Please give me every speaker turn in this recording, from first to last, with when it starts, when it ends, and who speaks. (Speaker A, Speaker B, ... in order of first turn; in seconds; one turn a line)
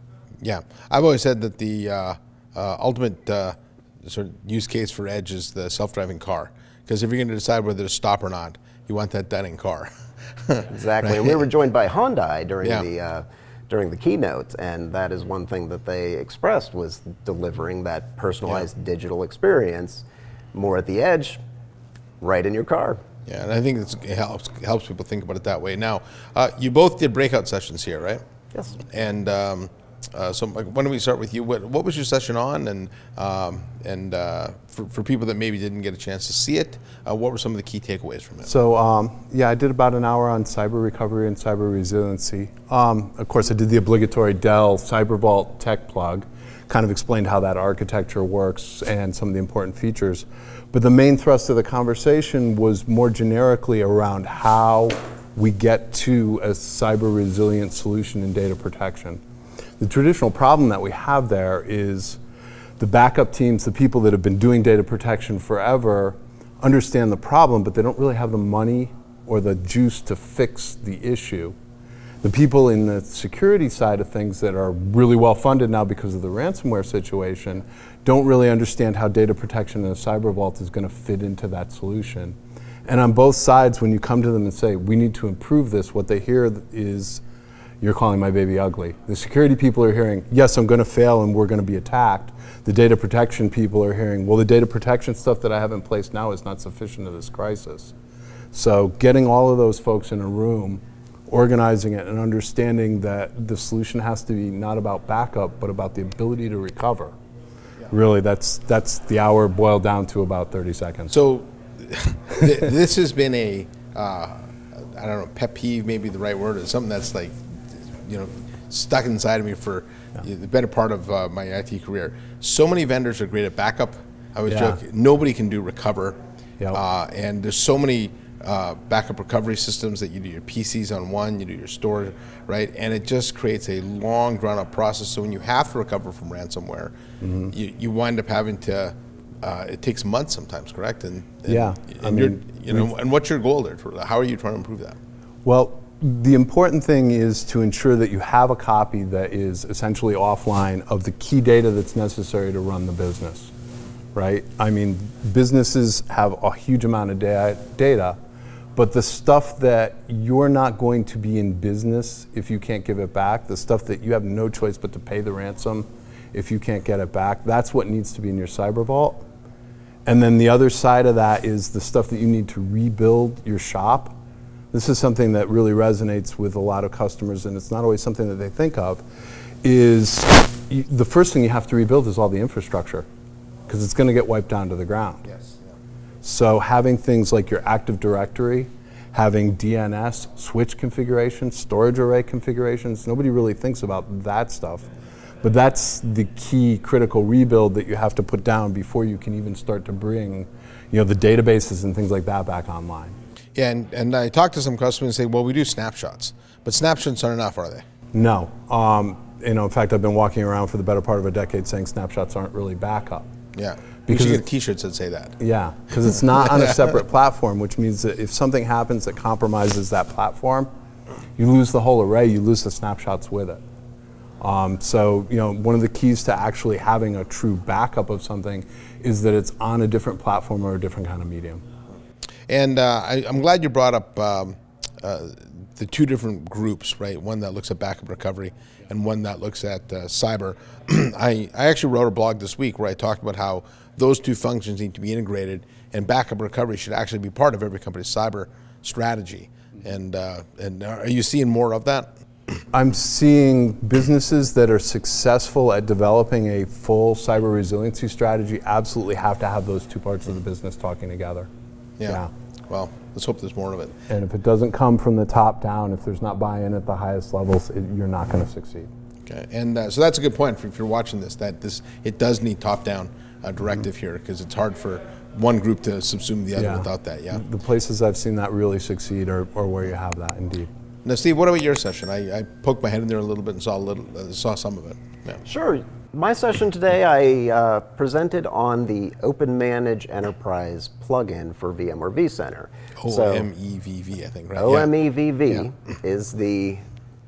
Speaker A: 0.4-9.9
Speaker A: 10.5-11.3
Speaker B: 10.7-21.4
Speaker B: 22.2-23.0
Speaker A: 23.3-28.2
Speaker A: 28.9-38.5
Speaker C: 38.4-59.2
Speaker C: 59.8-62.2
Speaker C: 62.8-71.6
Speaker C: 72.2-87.2
Speaker C: 87.8-97.9
Speaker C: 98.5-107.2
Speaker C: 107.9-111.2
Speaker A: 111.1-126.2
Speaker C: 124.5-124.8
Speaker A: 126.7-136.9
Speaker C: 137.2-137.5
Speaker A: 137.5-145.0
Speaker C: 141.5-142.9
Speaker C: 145.4-153.5
Speaker C: 154.1-158.2
Speaker C: 158.8-169.2
Speaker C: 170.1-174.2
Speaker C: 174.7-179.0
Speaker C: 179.6-183.1
Speaker C: 183.7-185.2
Speaker C: 186.2-194.9
Speaker C: 195.4-203.2
Speaker A: 203.6-207.8
Speaker C: 208.1-213.3
Speaker A: 213.6-215.4
Speaker C: 214.1-214.4
Speaker C: 215.4-220.7
Speaker C: 221.4-223.6
Speaker C: 224.4-231.6
Speaker A: 232.5-252.1
Speaker C: 252.7-261.5
Speaker A: 262.0-263.9
Speaker C: 262.1-262.3
Speaker C: 264.1-268.9
Speaker A: 269.2-277.4
Speaker C: 276.6-280.7
Speaker A: 281.1-285.4
Speaker B: 285.4-293.5
Speaker A: 293.0-294.9
Speaker B: 294.6-296.8